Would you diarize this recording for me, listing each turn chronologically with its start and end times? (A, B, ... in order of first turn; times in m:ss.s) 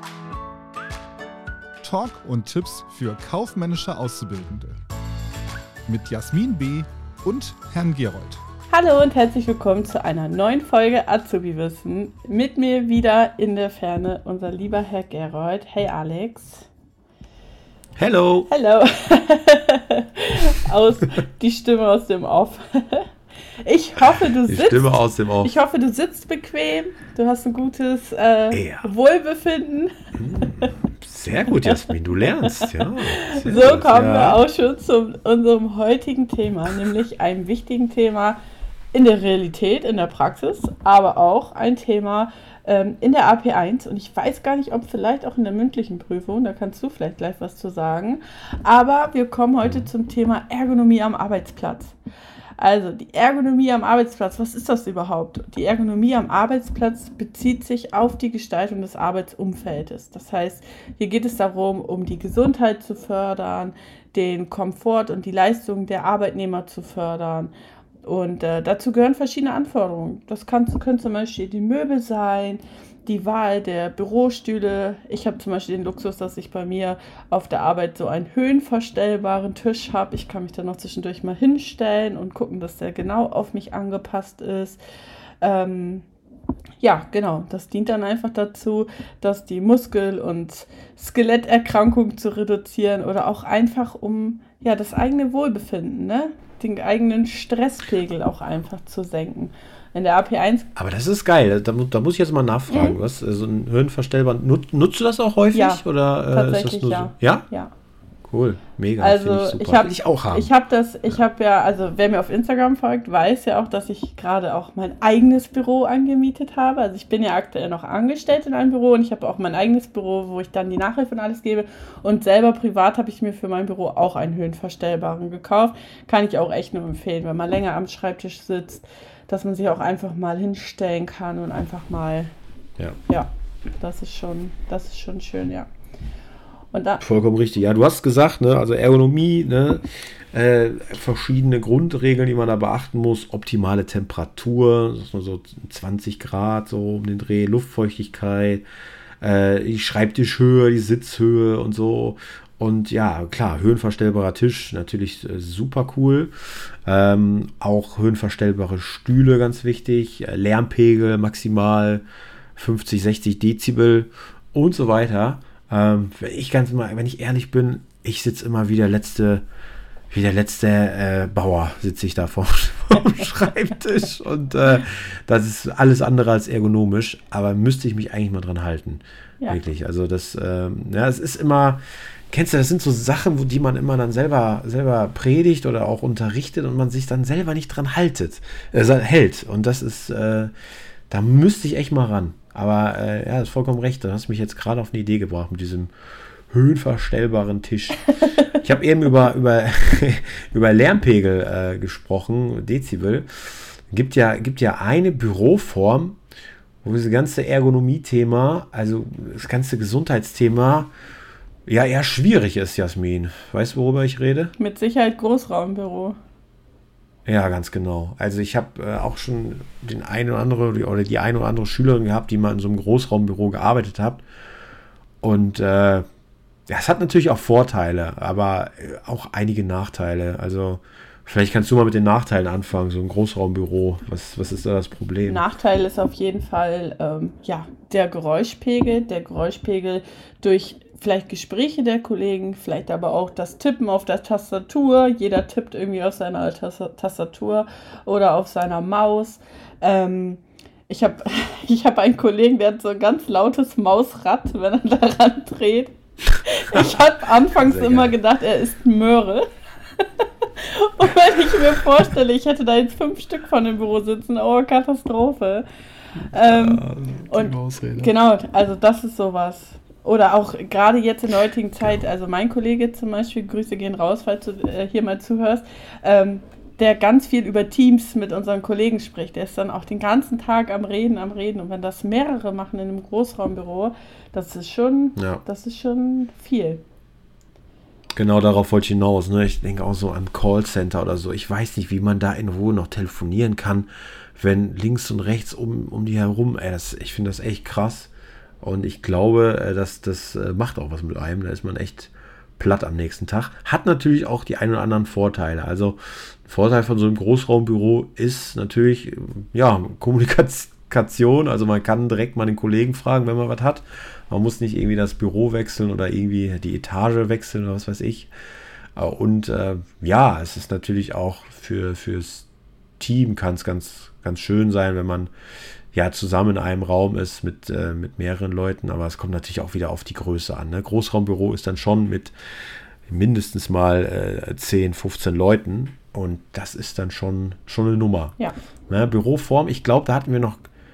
0:01.8-0:04.8 A
0:05.8-0:08.4 A
0:08.7-0:16.7 B
0:18.0-0:18.5 C
0:18.5-0:23.1 B
0:23.6-0:29.9 B
0:24.4-0:25.6 C
0:28.5-0:28.9 C
0:30.2-0:34.4 C
0:32.5-0:38.4 B
0:38.9-0:52.0 B
0:52.6-1:07.5 B
1:08.0-1:24.8 B
1:25.4-1:26.0 B
1:26.8-1:40.7 B
1:40.8-1:47.4 C
1:42.7-1:43.0 B
1:45.5-1:47.7 B
1:48.3-1:50.5 C
1:49.0-2:12.3 B
2:13.1-2:15.7 B
2:16.7-2:17.0 B
2:17.0-2:28.6 C
2:29.2-2:36.3 C
2:36.8-2:42.0 C
2:42.6-2:49.4 C
2:50.1-3:10.5 C
3:11.1-3:15.9 C
3:16.5-3:26.2 C
3:26.8-3:30.9 C
3:31.6-3:34.5 C
3:34.6-3:36.2 B
3:37.2-3:44.2 C
3:45.2-3:46.0 C
3:46.7-3:55.4 C
3:55.2-4:19.5 B
4:17.5-4:18.1 C
4:20.0-4:25.6 B
4:26.2-4:28.1 C
4:26.3-4:46.8 B
4:45.2-4:45.4 C
4:48.2-5:18.3 C
5:19.0-5:22.5 C
5:23.0-5:25.3 C
5:25.9-5:32.3 C
5:33.1-5:38.4 C
5:38.9-5:40.7 C